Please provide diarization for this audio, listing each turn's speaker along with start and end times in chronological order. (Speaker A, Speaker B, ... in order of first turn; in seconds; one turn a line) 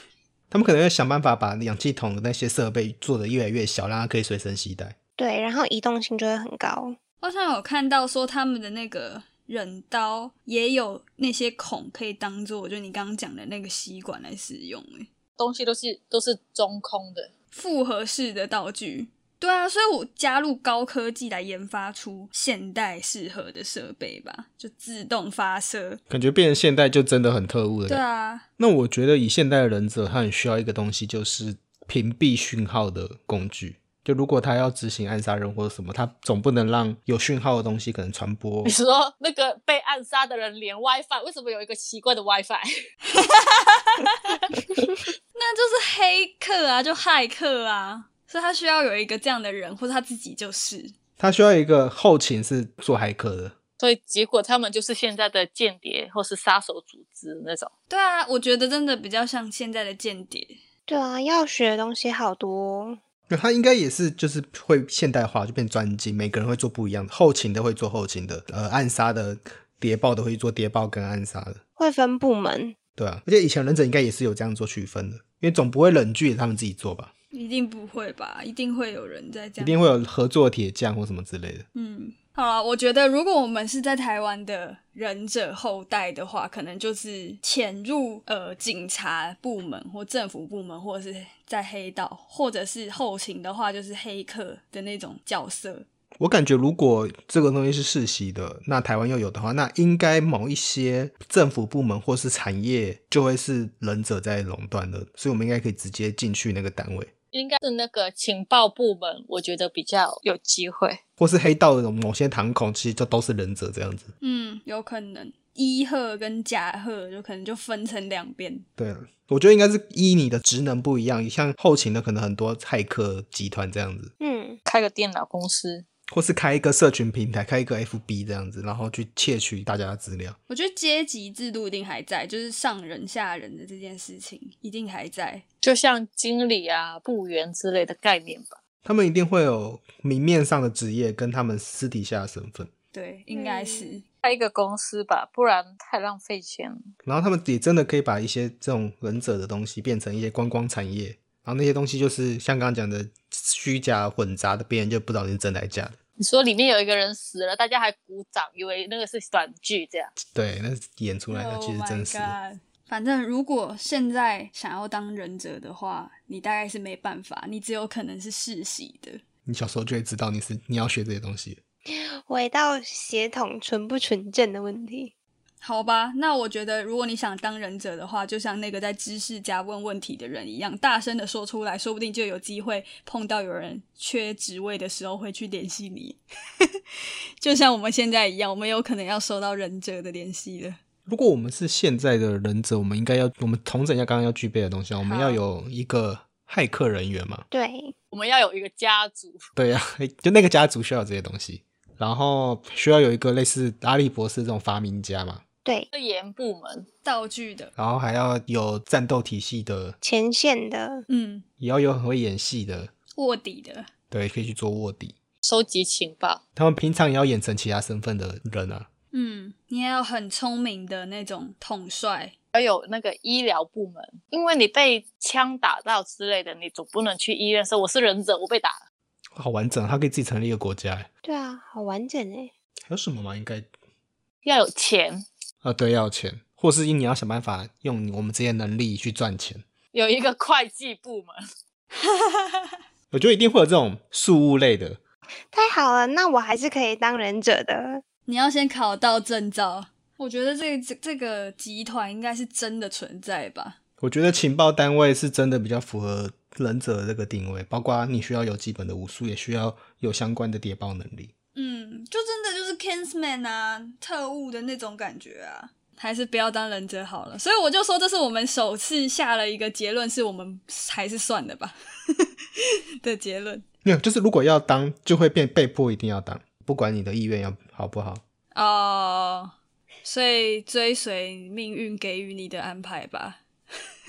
Speaker A: 0.5-5.0
Speaker B: 5.2-7.0
Speaker C: 7.2-15.1
Speaker D: 15.4-17.3
Speaker C: 17.5-26.0
Speaker A: 26.1-28.0
Speaker C: 27.9-28.4
Speaker A: 28.6-38.8
Speaker D: 38.6-42.7
Speaker C: 43.2-44.4
Speaker C: 45.4-50.9
Speaker A: 51.2-53.5
Speaker D: 53.8-57.7
Speaker C: 57.9-60.6
Speaker B: 60.9-63.0
Speaker A: 63.3-71.6
Speaker B: 71.8-72.8
Speaker A: 73.0-77.1
Speaker C: 77.3-79.8
Speaker A: 79.6-81.7
Speaker C: 81.8-95.9
Speaker A: 96.2-107.1
Speaker D: 107.3-111.0
Speaker A: 111.2-114.1
Speaker C: 114.2-118.7
Speaker A: 118.8-124.1
Speaker B: 124.2-124.6
Speaker D: 124.7-125.8
Speaker A: 126.1-130.4
Speaker C: 130.5-135.4
Speaker D: 135.6-138.6
Speaker A: 138.8-142.7
Speaker C: 142.9-144.0
Speaker B: 143.3-144.0
Speaker D: 144.2-146.8
Speaker A: 147.1-156.0
Speaker D: 156.2-160.1
Speaker A: 160.3-162.3
Speaker C: 161.3-169.2
Speaker A: 169.5-171.6
Speaker B: 171.9-175.1
Speaker C: 175.6-186.7
Speaker C: 187.4-190.8
Speaker A: 191.1-197.5
Speaker C: 195.0-195.4
Speaker B: 197.5-197.9
Speaker D: 198.1-199.5
Speaker A: 199.6-205.4
Speaker D: 205.9-206.9
Speaker C: 207.1-207.7
Speaker A: 207.8-210.0
Speaker B: 210.0-211.1
Speaker C: 211.1-211.4
Speaker A: 211.6-212.9
Speaker C: 213.2-213.9
Speaker A: 214.1-215.2
Speaker D: 215.4-216.4
Speaker A: 216.6-218.9
Speaker C: 219.1-222.3
Speaker D: 222.5-228.8
Speaker A: 229.3-231.1
Speaker B: 231.2-232.5
Speaker A: 232.9-233.7
Speaker D: 234.4-235.2
Speaker A: 235.6-239.7
Speaker D: 239.9-241.4
Speaker C: 242.0-242.6
Speaker A: 243.1-245.0
Speaker B: 245.5-248.0
Speaker C: 248.3-253.8
Speaker A: 254.0-261.3
Speaker C: 261.6-272.3
Speaker C: 273.0-273.6
Speaker A: 273.8-278.2
Speaker C: 278.5-279.5
Speaker C: 280.0-283.4